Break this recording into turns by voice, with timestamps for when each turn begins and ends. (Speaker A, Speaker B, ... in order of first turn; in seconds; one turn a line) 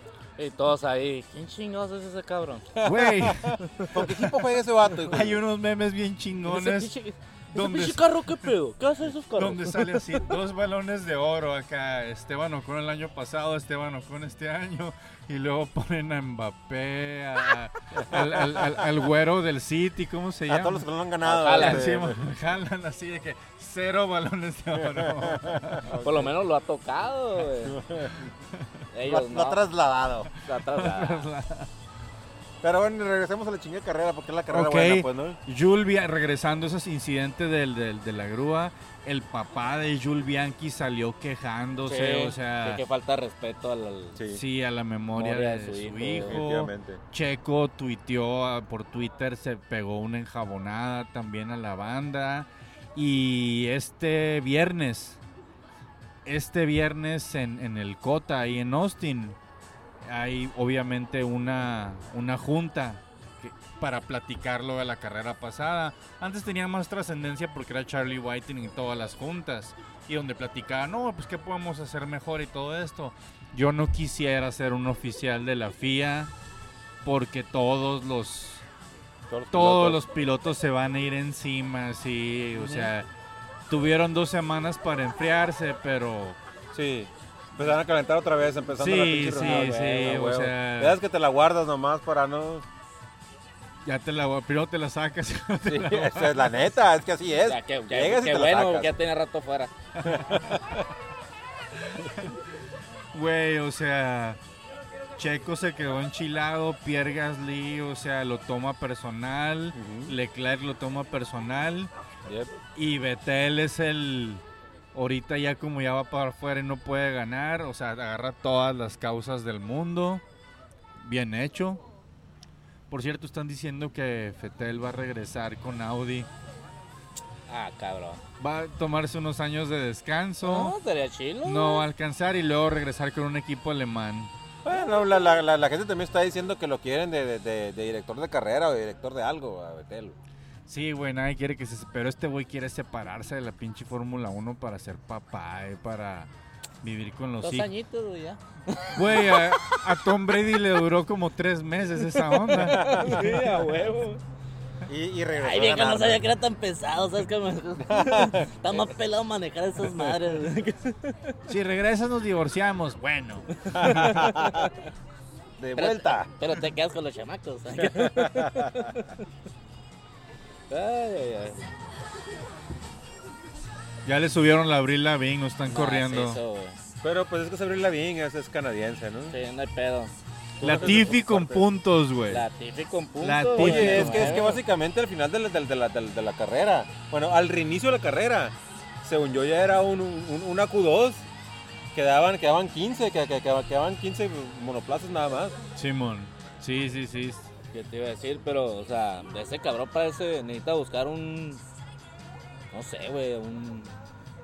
Speaker A: 0.4-2.7
Speaker B: 2.7-5.4
Speaker C: 2.8-4.4
Speaker A: 3.6-4.0
Speaker C: 5.0-6.9
Speaker A: 6.5-10.2
Speaker C: 7.5-8.5
Speaker C: 9.4-20.9
Speaker B: 17.9-18.9
Speaker B: 20.5-22.3
Speaker A: 21.2-22.1
Speaker C: 21.4-25.9
Speaker B: 24.7-26.3
Speaker A: 26.0-27.8
Speaker B: 27.6-28.3
Speaker A: 28.9-29.6
Speaker B: 29.0-30.3
Speaker C: 30.4-31.7
Speaker A: 30.4-31.3
Speaker B: 32.6-35.4
Speaker C: 34.5-42.8
Speaker A: 41.9-44.2
Speaker B: 44.2-44.4
Speaker C: 44.3-55.2
Speaker A: 45.2-46.4
Speaker B: 46.2-47.0
Speaker C: 56.2-59.4
Speaker C: 60.1-76.3
Speaker C: 77.0-78.7
Speaker B: 79.3-80.0
Speaker C: 79.5-83.1
Speaker A: 82.6-82.9
Speaker C: 83.7-86.4
Speaker B: 86.7-92.7
Speaker C: 88.8-91.0
Speaker A: 89.3-90.2
Speaker C: 93.8-96.5
Speaker B: 95.7-98.9
Speaker A: 97.5-99.7
Speaker C: 100.0-100.6
Speaker B: 100.0-100.8
Speaker C: 101.8-102.4
Speaker C: 103.1-104.4
Speaker C: 105.2-111.9
Speaker B: 109.8-110.2
Speaker B: 112.3-112.5
Speaker C: 112.8-114.4
Speaker C: 114.9-120.2
Speaker C: 121.0-121.8
Speaker C: 122.9-126.3
Speaker A: 127.5-128.2
Speaker C: 128.4-130.8
Speaker A: 130.4-131.9
Speaker C: 131.4-134.3
Speaker B: 134.7-140.2
Speaker C: 140.7-146.3
Speaker C: 146.8-147.7
Speaker A: 147.4-149.8
Speaker C: 148.9-153.4
Speaker A: 152.1-154.2
Speaker B: 152.7-153.4
Speaker B: 154.9-156.3
Speaker A: 155.4-161.4
Speaker B: 157.8-158.8
Speaker C: 161.5-163.7
Speaker A: 163.6-164.8
Speaker B: 163.7-164.7
Speaker B: 165.6-166.3
Speaker A: 165.8-169.2
Speaker B: 167.8-168.9
Speaker A: 170.7-171.7
Speaker C: 174.1-176.4
Speaker A: 175.7-176.8
Speaker B: 177.0-179.3
Speaker A: 179.3-181.2
Speaker B: 180.6-181.6
Speaker C: 180.6-182.5
Speaker A: 182.3-184.6
Speaker C: 183.2-184.4
Speaker B: 183.6-191.3
Speaker B: 191.9-195.6
Speaker C: 195.8-197.5
Speaker A: 197.7-201.6
Speaker A: 202.7-203.9